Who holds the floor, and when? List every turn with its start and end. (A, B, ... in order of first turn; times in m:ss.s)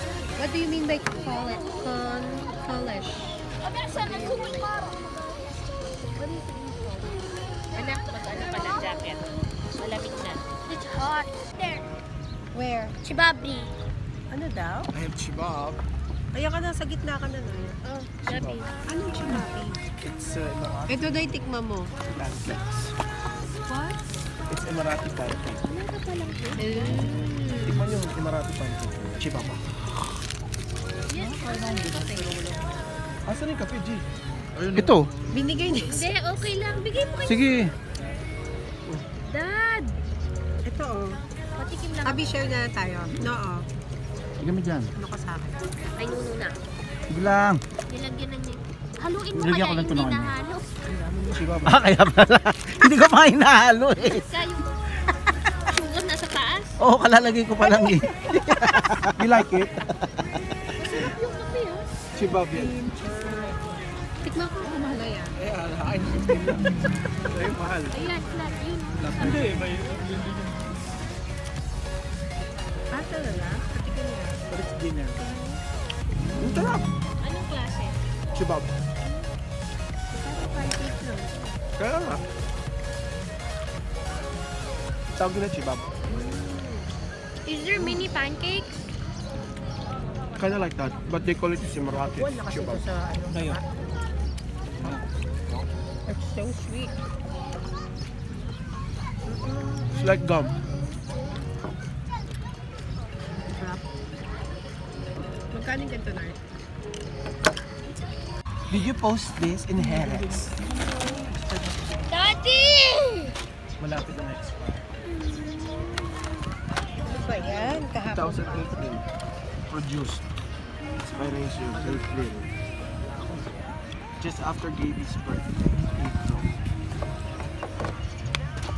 0:00.4-0:03.4 A
0:03.6-0:04.9 B
0:04.0-0:04.7 A
0:06.2-0:10.4 B
0:10.7-0:11.9 C
0:12.5-0:13.0 A
0:13.0-0:13.7 C
0:14.3-0:14.9 A
0:14.9-0:15.8 D
0:16.3-0:18.0 A
0:18.0-0:18.7 B
0:18.2-0:18.6 D
0:18.9-0:19.8 A
0:20.0-0:21.1 D
0:20.9-0:22.0 A
0:22.1-0:22.9 D
0:24.5-0:25.6 D
0:25.6-0:27.7 B
0:26.6-0:27.5 A
0:27.6-0:29.6 D
0:31.1-0:32.6 B
0:33.2-0:34.9 D
0:34.7-0:35.1 E
0:35.3-0:36.1 A
0:35.8-0:37.5 B
0:37.2-0:37.7 E
0:39.2-0:40.0 B
0:40.6-0:41.2 A
0:41.6-0:42.4 B
0:42.0-0:43.7 A
0:44.4-0:44.9 E
0:44.9-0:45.6 A
0:45.9-0:46.6 B
0:47.1-0:47.6 E
0:47.9-0:50.6 B
0:49.3-0:50.3 E
0:51.1-0:51.8 D
0:51.6-0:54.3 E
0:54.0-0:54.7 B
0:55.7-0:56.8 B
0:56.8-1:00.6 E
1:00.8-1:01.9 B
1:02.1-1:02.7 D
1:02.5-1:03.6 A
1:04.2-1:05.4 A
1:05.4-1:06.6 D
1:07.3-1:08.1 D
1:07.9-1:10.0 B
1:09.0-1:09.7 D
1:12.9-1:14.6 A
1:14.5-1:15.2 D
1:15.1-1:15.6 A
1:16.4-1:16.8 D
1:17.2-1:18.0 B
1:18.3-1:18.7 D
1:20.1-1:21.6 A
1:21.8-1:22.2 D
1:25.1-1:25.9 D
1:26.1-1:26.8 A
1:27.4-1:28.8 C
1:30.4-1:32.8 D
1:32.0-1:33.6 A
1:36.1-1:36.9 A
1:39.3-1:40.0 A
1:39.9-1:40.6 D
1:43.5-1:43.8 A
1:45.5-1:46.4 A
1:48.7-1:50.6 D
1:50.9-1:51.3 A
1:52.1-1:53.4 C
1:53.8-1:54.9 D
1:55.0-1:55.7 C
1:57.0-1:58.6 A
1:58.1-1:59.0 D
1:59.7-2:00.2 D
2:01.0-2:02.5 D
2:04.2-2:06.6 D